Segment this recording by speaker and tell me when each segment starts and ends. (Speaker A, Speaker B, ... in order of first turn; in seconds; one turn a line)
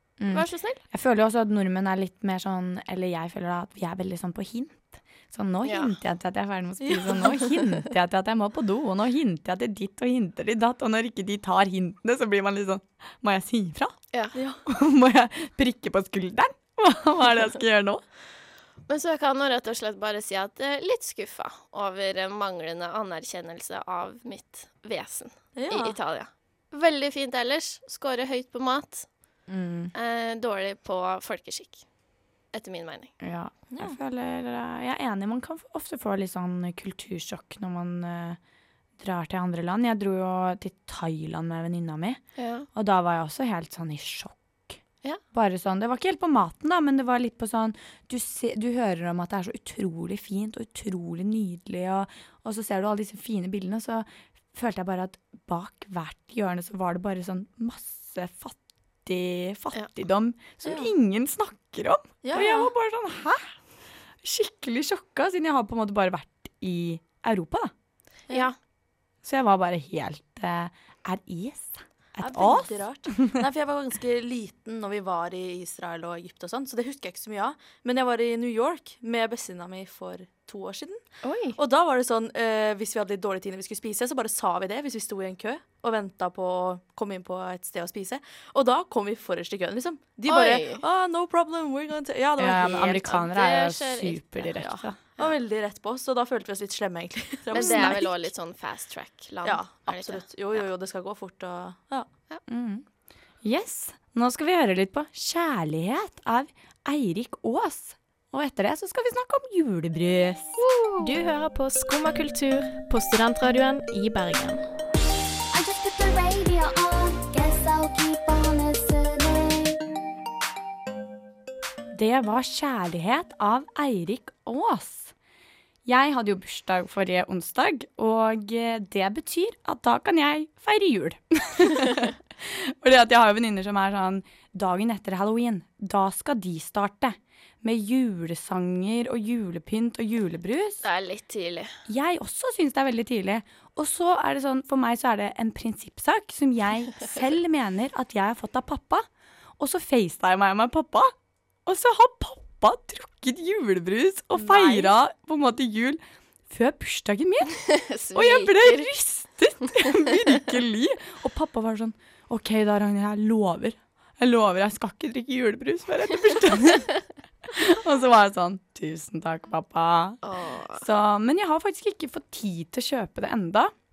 Speaker A: 0.2-14.0
Speaker B: 0.3-0.8
Speaker B: 5.7-5.9
Speaker C: 6.8-7.3
Speaker C: 14.3-14.6
Speaker A: 14.7-18.0
Speaker B: 18.9-29.1
Speaker C: 25.6-26.0
Speaker A: 29.5-29.9
Speaker B: 29.9-31.8
Speaker B: 32.5-33.1
Speaker A: 33.2-38.4
Speaker C: 33.7-34.0
Speaker A: 39.0-42.2
Speaker B: 42.4-42.7
Speaker A: 42.7-44.8
Speaker A: 45.3-63.5
Speaker C: 62.2-62.7
Speaker A: 64.2-67.7
Speaker B: 68.3-68.5
Speaker A: 69.2-73.4
Speaker C: 72.2-81.0
Speaker B: 81.2-81.6
Speaker C: 81.6-93.1
Speaker B: 90.3-90.8
Speaker A: 92.4-95.0
Speaker B: 92.9-94.5
Speaker C: 94.6-98.1
Speaker B: 97.5-100.6
Speaker A: 97.5-98.1
Speaker C: 99.5-102.1
Speaker A: 102.5-102.8
Speaker A: 103.4-110.6
Speaker B: 110.6-111.1
Speaker D: 111.0-114.6
Speaker E: 115.5-119.8
Speaker A: 121.9-125.1
Speaker A: 125.8-140.8
Speaker B: 140.8-141.7
Speaker A: 141.9-149.1
Speaker A: 149.6-151.1
Speaker A: 151.7-157.6
Speaker C: 154.4-154.9
Speaker B: 157.7-158.9
Speaker A: 158.1-166.9
Speaker A: 167.5-170.2
Speaker B: 170.2-170.8
Speaker A: 170.8-173.7